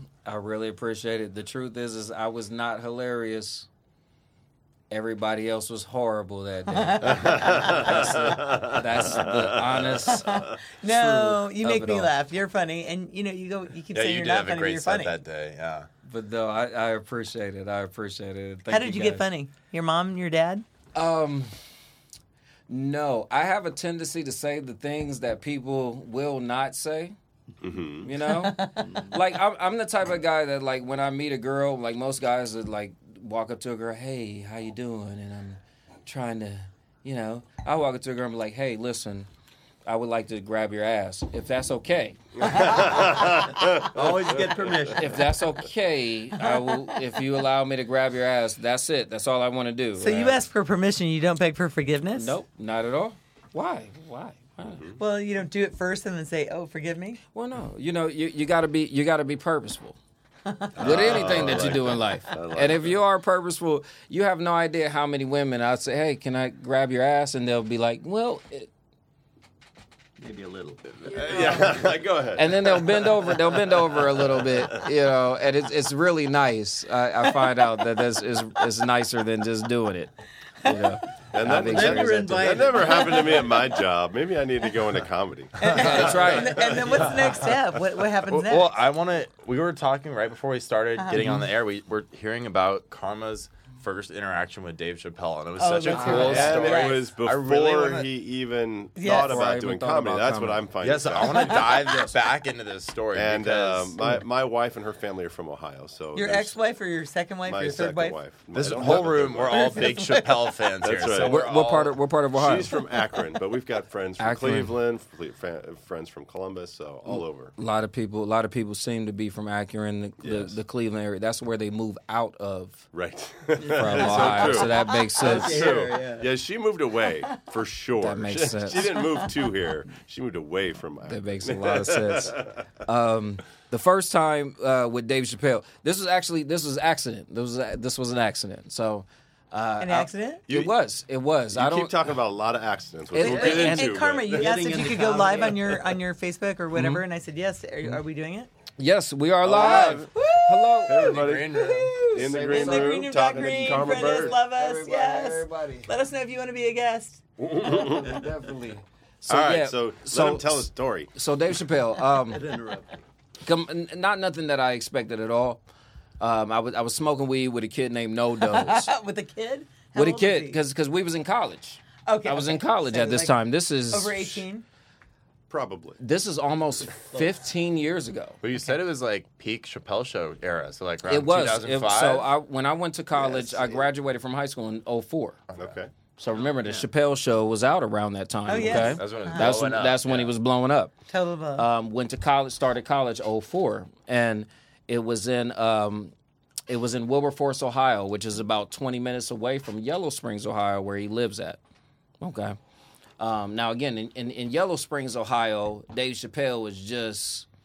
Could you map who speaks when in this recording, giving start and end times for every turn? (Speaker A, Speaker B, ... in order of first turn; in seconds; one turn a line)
Speaker A: 0.2-3.7
Speaker A: 4.9-12.1
Speaker B: 6.8-8.0
Speaker C: 7.2-10.4
Speaker B: 10.1-15.2
Speaker D: 13.9-15.9
Speaker A: 16.0-19.2
Speaker B: 18.7-20.6
Speaker A: 20.9-21.5
Speaker A: 22.7-27.2
Speaker C: 27.6-28.1
Speaker A: 28.0-39.3
Speaker B: 28.2-29.0
Speaker A: 39.9-42.7
Speaker C: 42.4-44.9
Speaker B: 42.4-43.1
Speaker E: 43.7-45.4
Speaker A: 45.0-50.4
Speaker B: 46.5-47.0
Speaker B: 50.0-52.4
Speaker A: 52.1-54.9
Speaker C: 54.6-55.0
Speaker B: 55.0-57.2
Speaker A: 57.3-60.0
Speaker B: 60.5-61.1
Speaker C: 60.8-63.0
Speaker A: 60.8-68.7
Speaker E: 70.2-71.9
Speaker C: 71.1-74.8
Speaker D: 71.2-71.6
Speaker A: 72.3-82.5
Speaker C: 81.3-87.0
Speaker E: 81.5-83.5
Speaker B: 85.6-88.8
Speaker A: 85.7-86.8
Speaker E: 87.0-87.3
Speaker D: 88.3-98.1
Speaker B: 91.0-91.5
Speaker B: 95.6-97.0
Speaker A: 95.9-96.5
Speaker C: 96.0-101.9
Speaker B: 99.0-99.5
Speaker A: 99.1-100.7
Speaker D: 100.8-104.0
Speaker B: 101.2-101.8
Speaker C: 103.1-106.6
Speaker B: 106.1-108.2
Speaker C: 107.5-109.9
Speaker D: 108.5-112.0
Speaker B: 109.5-110.7
Speaker C: 110.8-111.4
Speaker A: 111.2-112.8
Speaker C: 112.3-117.5
Speaker A: 114.2-114.7
Speaker A: 117.1-122.9
Speaker C: 120.2-120.6
Speaker C: 122.9-132.4
Speaker E: 123.6-126.3
Speaker A: 123.7-125.7
Speaker A: 128.0-129.0
Speaker A: 131.1-141.9
Speaker B: 139.8-140.4
Speaker C: 140.5-140.8
Speaker C: 141.5-144.5
Speaker A: 143.1-143.9
Speaker B: 143.2-148.5
Speaker E: 143.3-143.6
Speaker E: 144.3-145.8
Speaker A: 146.7-147.0
Speaker A: 148.8-151.1
Speaker C: 149.4-150.1
Speaker B: 149.5-157.2
Speaker C: 150.8-154.4
Speaker D: 151.1-152.0
Speaker A: 152.1-155.9
Speaker C: 157.4-158.2
Speaker A: 157.6-162.4
Speaker C: 159.3-161.1
Speaker E: 162.3-163.0
Speaker A: 163.4-165.6
Speaker A: 166.2-168.9
Speaker B: 168.4-170.6
Speaker A: 169.9-174.4
Speaker B: 172.1-174.6
Speaker C: 175.5-176.0
Speaker A: 176.0-178.4
Speaker D: 178.4-182.3
Speaker A: 181.1-185.4
Speaker C: 183.2-183.8
Speaker C: 185.6-185.9
Speaker A: 186.2-190.9
Speaker E: 186.4-186.9
Speaker B: 188.5-189.6
Speaker D: 188.6-190.3
Speaker B: 191.1-191.7
Speaker A: 191.6-196.1
Speaker A: 196.7-201.6
Speaker A: 202.2-202.6
Speaker A: 203.2-207.5